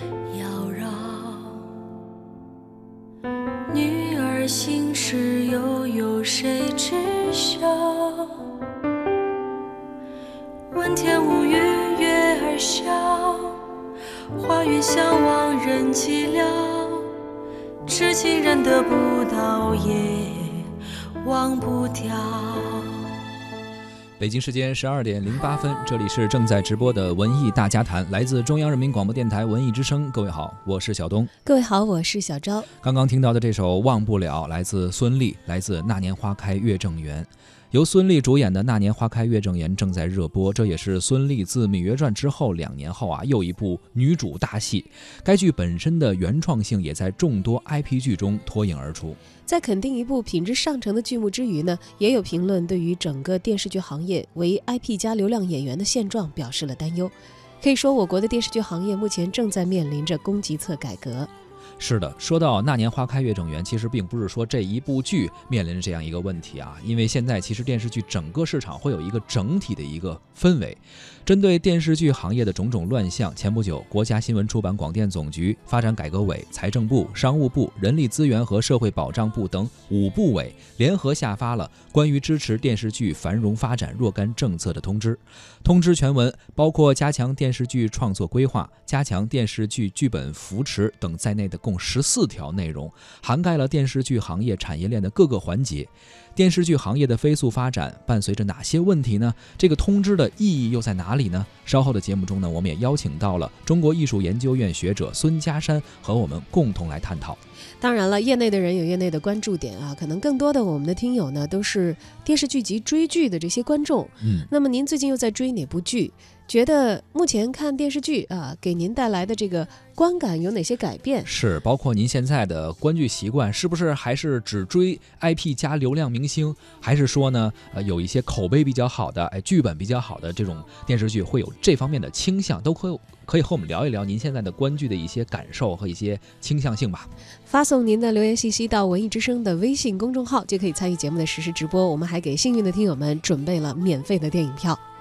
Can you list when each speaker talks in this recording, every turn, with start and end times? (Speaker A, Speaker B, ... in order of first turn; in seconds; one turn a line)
Speaker A: 0.3-1.7
Speaker A: 3.7-8.5
Speaker A: 10.7-13.7
Speaker A: 14.3-17.1
Speaker A: 17.9-23.1
Speaker B: 24.2-31.3
Speaker C: 31.4-32.7
Speaker B: 32.8-49.2
Speaker C: 49.5-61.3
Speaker B: 61.8-107.4
Speaker C: 107.8-121.3
Speaker B: 114.2-114.5
Speaker B: 121.2-137.1
Speaker C: 137.5-144.8